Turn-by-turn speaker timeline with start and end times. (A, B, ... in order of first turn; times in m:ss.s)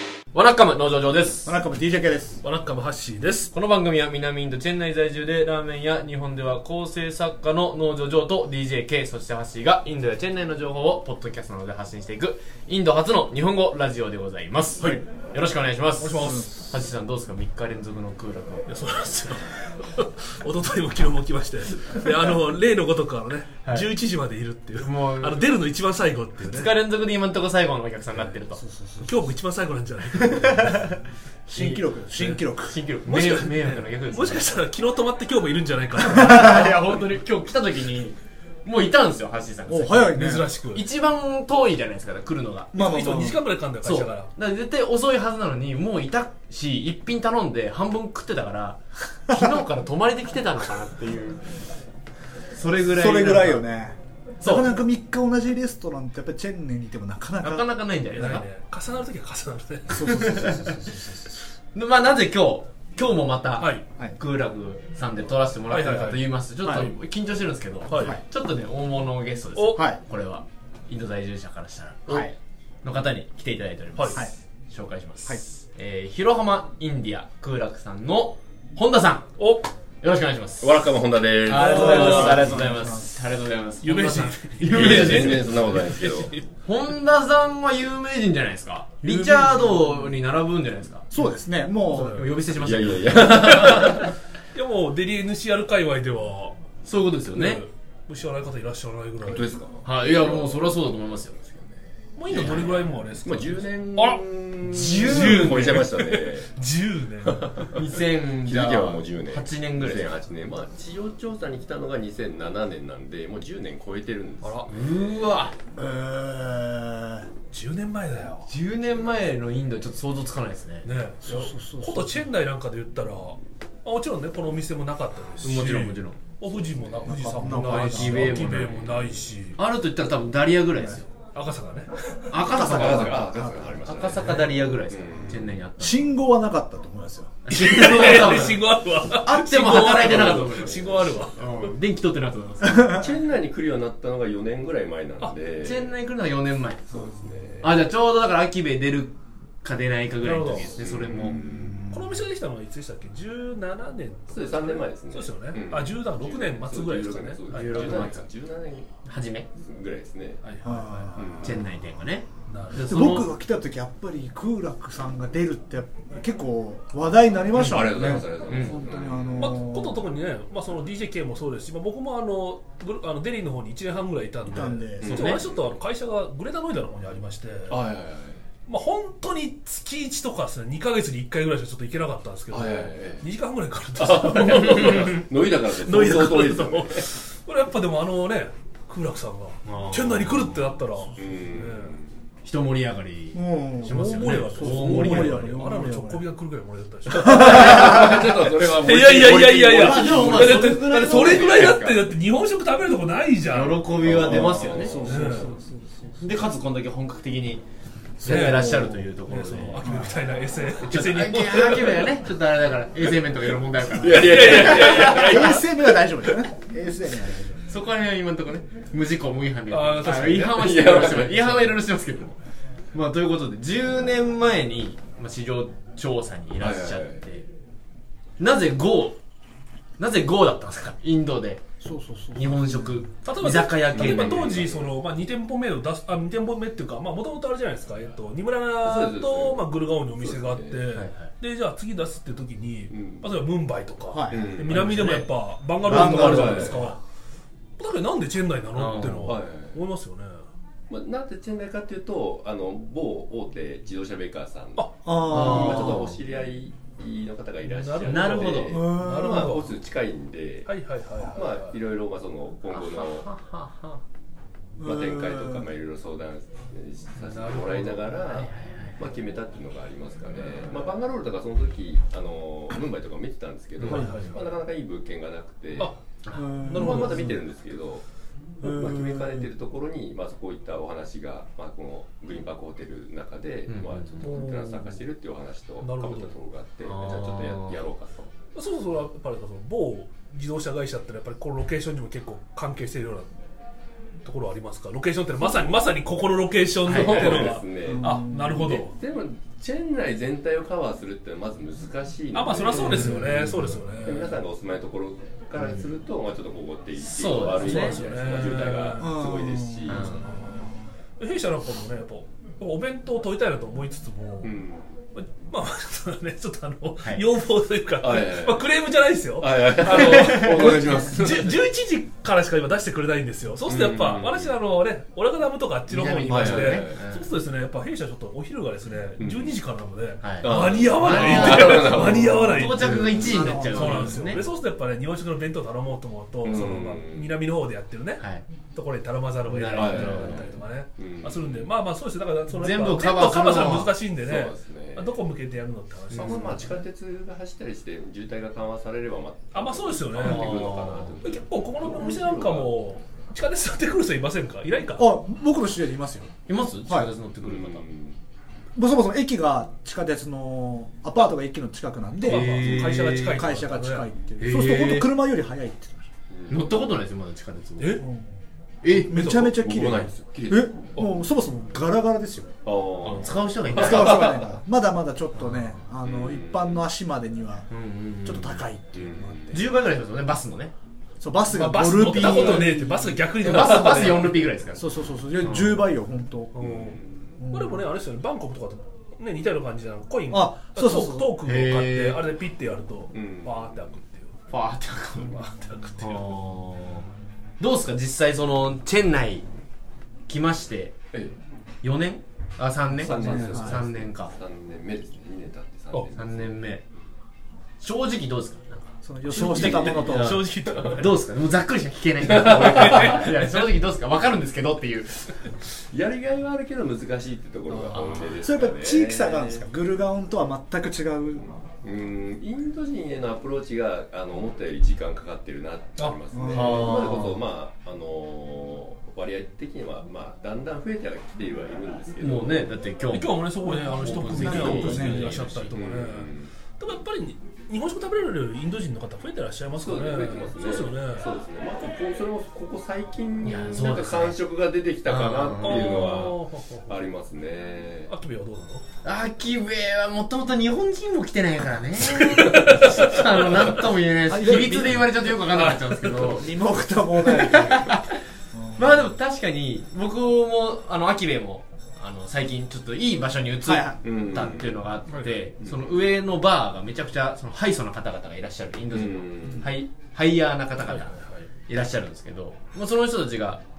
0:00.3-0:01.6 A
0:01.4-0:02.4 B
0:02.4-0:03.5 C
0:03.5-0:18.7 A
0:16.0-0:16.5 C
0:16.2-0:16.5 B
0:18.7-0:26.7 C
0:24.8-0:25.5 A
0:26.4-0:28.6 A
0:28.5-0:29.2 B
0:29.0-0:30.9 C
0:31.5-0:32.8 B
0:31.6-0:31.8 A
0:32.2-0:32.4 C
0:32.6-0:34.5 A
0:33.1-0:37.0 C
0:36.2-0:36.7 B
0:36.2-0:42.8 A
0:39.7-0:40.5 B
0:40.1-0:40.8 C
0:42.7-0:43.4 B
0:42.7-0:44.3 C
0:43.8-0:51.6 A
0:52.5-0:53.6 A
0:52.9-0:58.4 B
0:54.4-0:54.8 A
0:57.4-0:58.4 A
0:58.2-1:00.3 C
0:59.9-1:01.4 B
1:00.0-1:00.8 A
1:01.7-1:12.2 A
1:03.6-1:03.8 C
1:05.7-1:06.8 C
1:06.6-1:06.9 B
1:07.9-1:08.2 C
1:07.9-1:08.2 B
1:09.6-1:09.8 C
1:09.8-1:10.0 B
1:12.1-1:12.3 B
1:12.8-1:19.3 A
1:14.0-1:14.2 C
1:19.4-1:19.7 C
1:20.0-1:20.8 A
1:20.6-1:22.6 D
1:21.4-1:25.7 A
1:21.5-1:23.1 B
1:21.6-1:22.5 C
1:23.8-1:26.5 C
1:24.7-1:26.3 D
1:26.6-1:31.1 A
1:29.0-1:29.8 C
1:31.1-1:32.3 B
1:31.9-1:32.3 C
1:32.0-1:34.1 A
1:32.5-1:34.1 D
1:33.6-1:34.0 C
1:34.5-1:36.6 C
1:36.8-1:37.6 A
1:37.3-1:39.5 C
1:39.2-1:40.7 D
1:39.8-1:41.7 A
1:42.2-1:47.7 C
1:42.3-1:46.5 D
1:42.3-1:42.8 A
1:44.7-1:45.9 A
1:47.2-1:54.7 D
1:47.7-1:50.1 A
1:54.4-1:54.7 C
1:54.7-1:55.6 A
1:55.8-1:57.3 B
1:57.5-1:58.5 C
1:58.5-2:00.9 A
2:00.8-2:09.6 C
2:01.2-2:02.2 B
2:05.4-2:06.2 A
2:07.1-2:08.8 B
2:07.4-2:11.1 A
2:11.3-2:12.3 C
2:12.3-2:13.3 A
2:12.4-2:13.8 B
2:12.5-2:15.5 D
2:13.8-2:16.0 A
2:15.8-2:17.4 B
2:17.4-2:23.0 A
2:17.5-2:21.7 C
2:19.9-2:21.3 D
2:22.6-2:22.9 B
2:22.8-2:25.9 D
2:25.6-2:26.8 A
2:26.9-2:27.8 D
2:27.6-2:31.4 A
2:30.2-2:30.8 C
2:30.7-2:31.8 D
2:31.3-2:32.2 B
2:31.9-2:38.1 C
2:34.3-2:38.9 D
2:37.5-2:38.2 A
2:39.0-2:39.5 A
2:39.6-2:40.4 D
2:40.4-2:41.6 C
2:40.6-2:41.3 B
2:41.2-2:41.6 D
2:41.4-2:43.3 A
2:42.5-2:43.0 C
2:42.8-2:50.0 B
2:47.5-2:49.5 D
2:47.6-2:47.9 A
2:48.5-2:48.8 A
2:49.4-2:57.8 C
2:54.5-2:55.2 B
2:55.0-2:55.6 D
2:55.0-2:55.4 A
2:57.7-2:58.4 D
2:58.7-3:12.0 C
3:02.5-3:03.3 D
3:04.0-3:07.1 D
3:09.6-3:10.6 A
3:11.2-3:12.2 D
3:12.4-3:15.6 A
3:13.3-3:16.2 B
3:13.9-3:24.2 C
3:17.1-3:18.2 B
3:17.3-3:22.1 D
3:19.7-3:21.8 A
3:23.5-3:25.1 A
3:24.0-3:25.2 D
3:24.1-3:26.3 B
3:25.0-3:25.6 C
3:26.2-3:27.6 A
3:28.2-3:29.9 A
3:28.2-3:29.0 B
3:28.2-3:32.1 C
3:29.8-3:30.2 B
3:30.8-3:35.1 A
3:33.8-3:35.9 D
3:34.1-3:35.6 C
3:34.9-3:37.7 B
3:37.7-3:42.4 A
3:39.7-3:40.9 C
3:40.1-3:41.8 D
3:42.9-3:47.5 A
3:46.6-3:47.2 D
3:48.4-3:49.2 A
3:50.0-3:51.6 A
3:51.8-3:53.0 B
3:52.4-3:54.6 A
3:53.2-4:07.0 C
3:53.9-3:54.9 D
3:58.8-3:59.7 D
4:00.2-4:00.8 D
4:00.9-4:01.3 A
4:02.9-4:03.3 D
4:04.1-4:04.5 B
4:04.3-4:04.8 D
4:04.7-4:05.3 A
4:05.8-4:06.9 B
4:05.9-4:06.7 A
4:06.0-4:06.8 D
4:07.8-4:10.4 C
4:08.7-4:09.4 A
4:09.3-4:09.8 D
4:10.9-4:20.7 D
4:15.0-4:16.1 B
4:15.2-4:16.2 A
4:17.6-4:19.7 C
4:18.0-4:18.9 A
4:18.7-4:19.8 B
4:20.7-4:21.8 C
4:21.3-4:23.3 D
4:22.7-4:24.0 A
4:24.8-4:25.7 B
4:24.8-4:35.9 D
4:27.2-4:28.3 C
4:28.3-4:29.0 A
4:33.8-4:34.5 C
4:33.9-4:34.3 B
4:35.8-4:37.4 C
4:36.2-4:36.5 A
4:36.3-4:37.4 B
4:36.7-4:38.0 D
4:38.6-4:39.5 B
4:38.6-4:48.3 D
4:43.7-4:44.2 A
4:44.2-4:45.0 C
4:45.8-4:46.3 C
4:46.9-4:47.8 A
4:48.6-4:53.3 C
4:54.2-4:59.0 C
4:55.5-4:55.8 D
4:56.8-4:57.5 A
4:56.9-5:03.4 D
4:57.8-4:58.7 B
5:02.3-5:04.4 C
5:02.7-5:03.8 A
5:04.0-5:10.0 D
5:07.0-5:08.0 A
5:07.4-5:09.3 C
5:09.0-5:10.6 B
5:09.9-5:14.5 C
5:09.9-5:10.2 A
5:14.4-5:14.9 D
5:15.1-5:46.8 C
5:18.0-5:18.7 D
5:19.4-5:21.6 D
5:23.7-5:24.5 D
5:25.9-5:27.2 A
5:26.3-5:27.1 D
5:29.2-5:29.5 D
5:30.2-5:34.4 A
5:30.4-5:33.3 D
5:32.8-5:34.4 B
5:36.4-5:37.3 D
5:38.2-5:38.4 A
5:39.5-5:40.5 A
5:39.7-5:41.7 D
5:42.6-5:44.0 A
5:44.2-5:45.1 D
5:46.1-5:52.8 D
5:49.5-5:55.1 C
5:50.2-5:51.2 A
5:55.0-5:56.3 B
5:56.5-5:57.9 A
5:56.8-5:57.1 B
5:57.4-5:58.2 D
5:58.8-6:06.0 B
6:02.2-6:04.1 C
6:02.2-6:03.5 A
6:04.4-6:05.1 A
6:06.3-6:06.8 D
6:06.5-6:08.0 A
6:07.8-6:08.0 C
6:08.0-6:08.3 B
6:08.8-6:09.4 A
6:08.9-6:12.6 B
6:09.0-6:10.8 D
6:12.6-6:14.5 D
6:13.0-6:14.4 A
6:13.7-6:17.7 B
6:15.4-6:15.7 A
6:16.0-6:16.8 D
6:17.7-6:18.6 A
6:18.2-6:19.7 B
6:19.0-6:19.7 D
6:19.5-6:20.7 A
6:21.2-6:23.2 B
6:21.5-6:24.5 C
6:22.0-6:22.7 A
6:23.4-6:25.9 A
6:23.6-6:23.9 D
6:24.8-6:26.5 B
6:26.6-6:34.3 C
6:26.6-6:27.3 D
6:27.4-6:27.9 B
6:30.3-6:31.4 B
6:31.4-6:32.2 A
6:33.1-6:33.8 D
6:34.5-6:35.5 A
6:35.2-6:36.4 C
6:36.0-6:37.1 A
6:37.6-6:39.5 A
6:40.3-6:41.0 A
6:41.8-6:44.3 A
6:43.0-6:46.5 D
6:43.0-6:43.8 B
6:43.0-6:43.6 C
6:46.2-6:46.8 A
6:47.8-6:55.4 A
6:49.0-6:50.5 B
6:49.4-6:51.1 D
6:50.0-6:51.1 C
6:52.3-6:53.3 D
6:52.4-6:53.6 C
6:55.9-6:59.6 D
6:57.7-6:58.2 C
6:58.4-7:01.5 B
7:01.8-7:12.7 D
7:06.3-7:07.1 B
7:06.5-7:07.4 A
7:12.2-7:15.7 A
7:13.1-7:21.3 C
7:13.6-7:15.3 B
7:14.6-7:15.0 D
7:15.7-7:16.5 D
7:19.8-7:28.1 D
7:23.4-7:24.4 A
7:25.1-7:26.3 A
7:25.6-7:27.0 C
7:28.1-7:28.8 C
7:29.0-7:36.5 A
7:32.0-7:33.7 C
7:34.2-7:35.1 B
7:34.5-7:34.8 C
7:35.4-7:36.4 C
7:36.1-7:39.1 B
7:37.2-7:38.2 A
7:38.8-7:53.6 A
7:43.6-7:44.0 B
7:44.0-7:44.8 D
7:45.1-7:45.4 C
7:45.6-7:46.0 D
7:48.9-7:49.7 D
7:50.9-7:51.5 C